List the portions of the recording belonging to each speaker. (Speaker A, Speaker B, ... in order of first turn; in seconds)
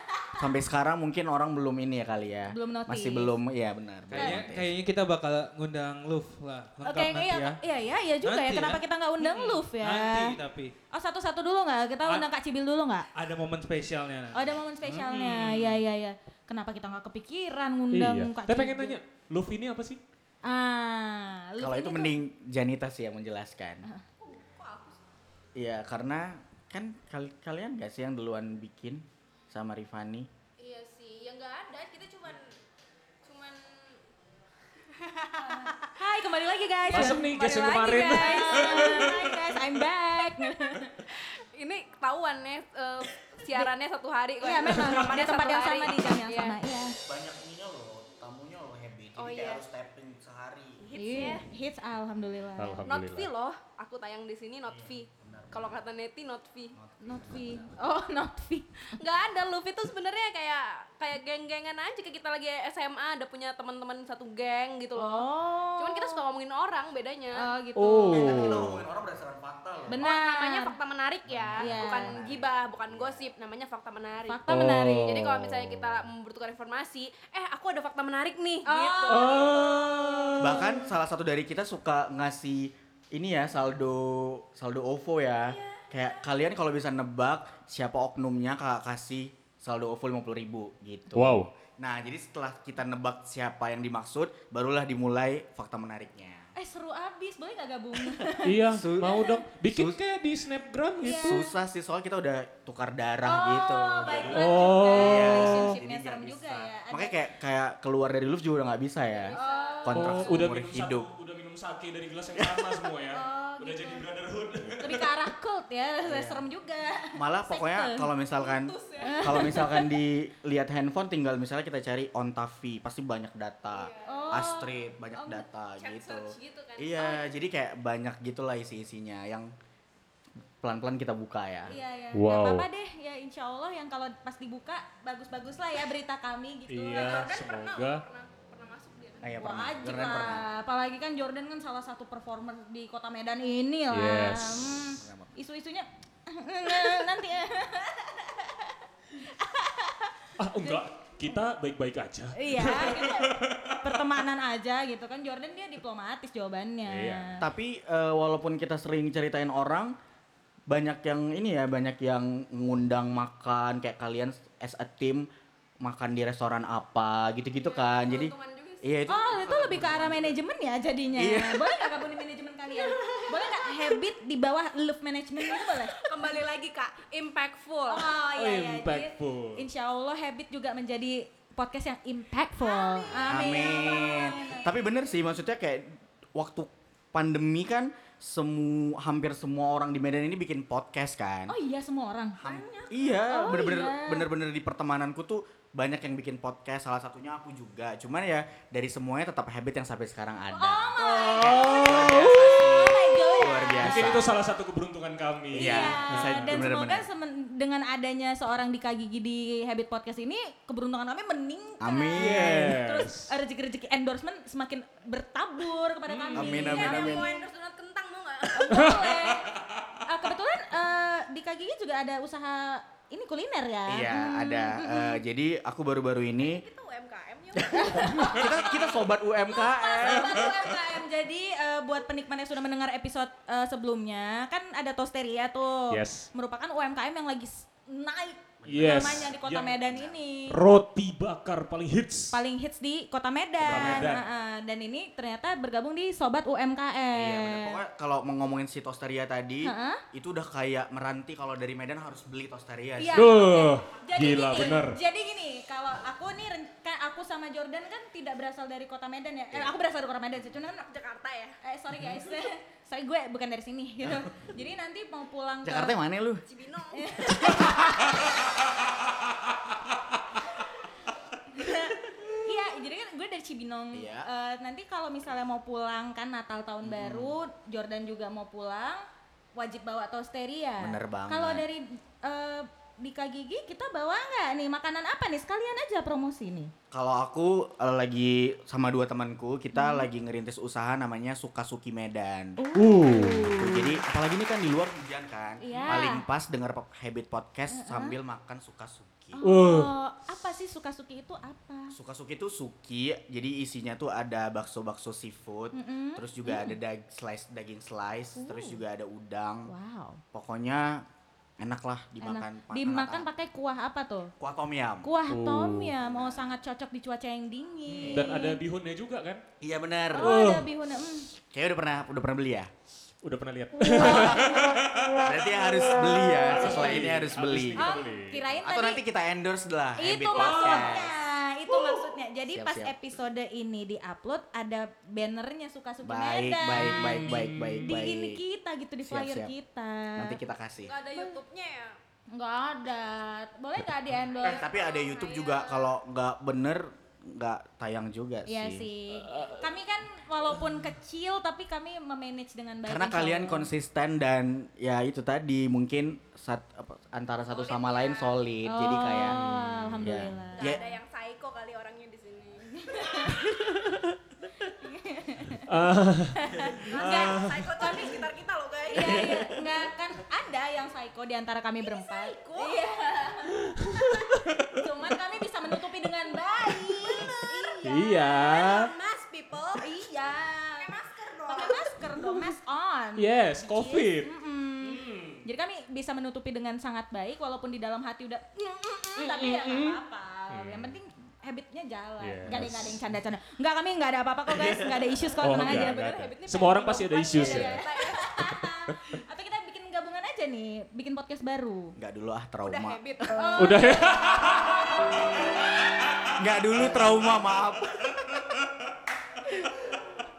Speaker A: 0.3-4.7, 21.6-23.9, 25.6-30.3, 47.0-50.8, 54.7-55.7, 56.8-57.3, 68.1-70.0, 71.2-73.3, 80.4-96.5, 98.7-100.0, 101.2-111.1, 112.4-112.8, 116.0-116.4, 117.1-129.5, 130.6-131.7, 139.2-140.4, 145.0-145.3, 157.4-159.9, 160.7-165.3, 165.8-170.3, 171.2-171.8, 183.3-191.5, 192.4-204.3, 205.5-207.1, 211.8-212.7, 216.3-217.3, 223.9-226.6, 227.5-230.5, 238.6-239.3, 239.9-240.2, 243.6-244.2, 247.1-253.4, 265.6-266.4, 267.4-267.9, 273.9-274.3, 276.8-277.4, 280.8-281.6, 286.9-292.6, 293.4-299.4, 301.9-309.7, 310.3-311.0, 311.6-313.3, 314.4-315.1, 316.0-316.6, 319.6-320.4, 321.4-322.7, 324.0-324.6, 325.2-327.9, 328.6-331.1, 332.5-332.9, 336.0-338.4, 339.0-339.5, 340.1-340.9, 344.4-348.9, 352.9-359.4, 360.0-360.8, 392.5-392.8, 401.9-403.0, 406.4-408.4
Speaker B: 2.5-3.3, 6.8-10.4, 10.9-13.1, 14.3-19.0, 20.4-22.1, 35.4-40.9, 44.4-47.0, 50.9-52.8, 57.0-58.9, 65.0-66.2, 67.3-68.7, 69.9-70.7, 71.6-72.2, 74.2-75.2, 78.7-80.8, 96.5-99.4, 101.0-101.4, 103.2-107.2, 109.3-110.5, 113.1-114.0, 114.8-118.1, 119.0-120.0, 124.0-124.8, 131.7-137.4, 139.4-151.3, 152.3-157.4, 169.1-176.4, 177.9-184.6, 191.5-194.2, 200.5-204.3, 205.5-217.5, 218.5-219.5, 220.0-225.2, 227.8-228.8, 229.5-240.6, 242.3-247.8, 249.6-250.0, 253.0-260.8, 261.6-265.9, 266.9-268.3, 271.5-279.0, 279.5-286.7, 289.7-290.1, 292.6-294.0, 295.6-296.2, 297.7-298.1, 299.3-301.9, 305.7-306.8, 308.4-308.8, 309.7-310.2, 312.2-314.3, 315.0-318.6, 320.1-321.3, 326.6-326.9, 327.8-329.0, 330.0-340.4, 341.1-341.4, 342.3-344.7, 348.5-353.7, 358.6-360.9, 362.8-363.5, 364.8-365.7, 366.4-368.2, 368.9-373.6, 374.1-377.7, 379.8-380.9, 381.5-396.0, 397.3-401.9, 403.3-404.2
Speaker C: 4.1-7.6, 8.2-10.7, 13.1-15.1
Speaker D: 15.0-15.8, 17.9-20.0, 36.9-39.5, 52.6-53.3, 67.8-68.8, 74.5-76.0, 79.1-80.6, 91.1-91.5, 98.4-101.4, 104.2-105.7, 109.9-115.2, 132.1-132.7, 136.7-138.0, 143.9-145.0, 150.4-154.0, 156.9-157.5, 178.3-179.7, 201.0-203.0, 203.8-206.6, 212.2-213.3, 216.1-216.6, 218.7-219.7, 235.9-236.3, 238.7-242.4, 243.6-244.2, 253.1-255.0, 292.7-293.6, 295.7-296.1, 299.4-299.9, 315.3-315.9, 317.9-319.4, 320.2-320.7, 323.2-325.2, 326.3-328.4, 330.3-331.0, 331.7-332.0, 336.7-338.0, 359.3-360.2, 365.6-367.7, 373.6-374.7, 377.8-378.9, 383.1-384.3, 384.8-385.4, 389.2-391.0, 392.2-393.0, 395.4-397.9, 398.5-399.0, 403.6-404.9
Speaker E: 24.2-25.0, 30.6-32.5, 33.2-34.0, 34.9-36.0, 36.9-37.2, 38.1-39.1, 41.1-46.6, 49.2-49.6, 50.8-51.5, 52.8-56.8, 59.0-67.5, 70.0-74.4, 75.0-80.4, 85.4-86.3, 109.3-110.3, 118.3-119.7, 123.7-124.5, 125.2-127.3, 136.9-139.4, 167.6-169.1, 172.7-174.0, 175.4-178.2, 182.6-184.7, 192.5-193.1, 216.5-219.0, 226.4-229.1, 260.8-261.6, 266.4-267.9, 340.8-341.9, 344.3-346.0, 357.5-358.4, 360.6-363.4, 366.9-369.7, 371.8-373.3, 377.0-382.3, 395.5-398.3, 402.6-404.7